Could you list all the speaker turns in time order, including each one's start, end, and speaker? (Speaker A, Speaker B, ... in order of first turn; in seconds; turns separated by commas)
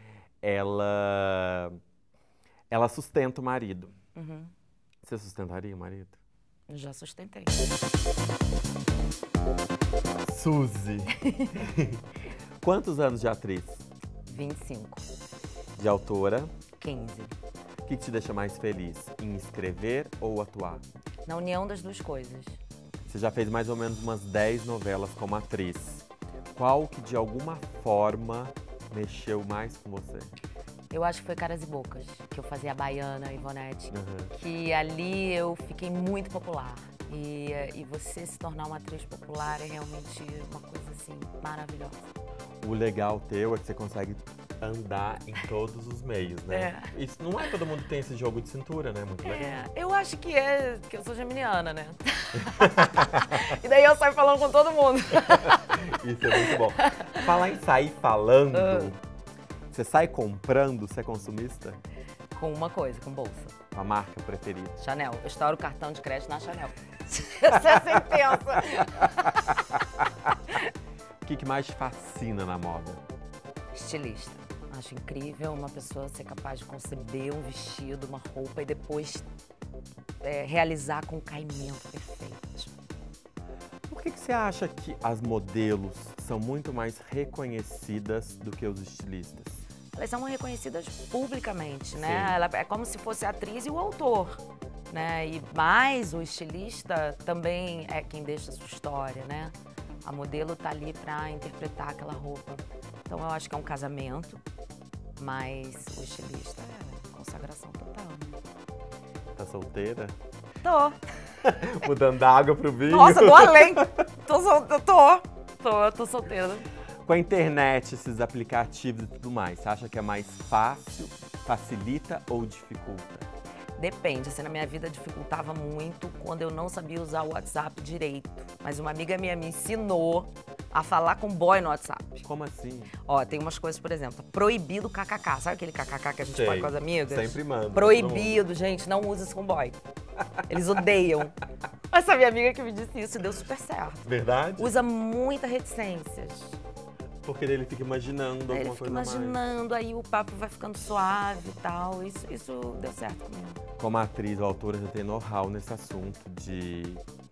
Speaker A: 0.4-1.8, Speaker A: 2.7-3.9, Speaker B: 4.1-4.5, Speaker A: 5.0-6.2, Speaker B: 6.7-7.7, Speaker A: 10.2-12.0, Speaker B: 11.2-11.6, Speaker A: 12.6-13.8, Speaker B: 14.3-15.1, Speaker A: 15.8-16.5, Speaker B: 16.8-17.3, Speaker A: 17.8-20.8, Speaker B: 21.2-22.6, Speaker A: 23.1-30.3, Speaker B: 30.9-42.1, Speaker A: 33.9-34.3, Speaker A: 42.6-49.7, Speaker B: 46.5-46.9, Speaker B: 49.2-57.3, Speaker A: 52.4-53.4, Speaker A: 55.4-59.0, Speaker B: 58.5-59.0, Speaker A: 59.7-61.8, Speaker B: 62.3-63.5, Speaker A: 63.7-64.8, Speaker B: 64.8-69.6, Speaker A: 71.2-73.0, Speaker B: 73.7-79.3, Speaker B: 80.2-82.7, Speaker A: 83.9-89.6, Speaker B: 89.9-104.4, Speaker A: 91.9-92.3, Speaker B: 105.2-108.4, Speaker A: 109.3-110.2, Speaker B: 110.6-111.0, Speaker A: 111.4-114.0, Speaker B: 112.9-116.7, Speaker A: 117.0-123.3, Speaker B: 123.8-132.3, Speaker A: 132.2-132.9, Speaker B: 133.0-139.8, Speaker A: 136.3-138.4, Speaker B: 140.5-141.4, Speaker B: 141.9-146.6, Speaker A: 144.1-144.8, Speaker A: 147.2-149.4, Speaker B: 148.5-153.6, Speaker A: 153.8-157.0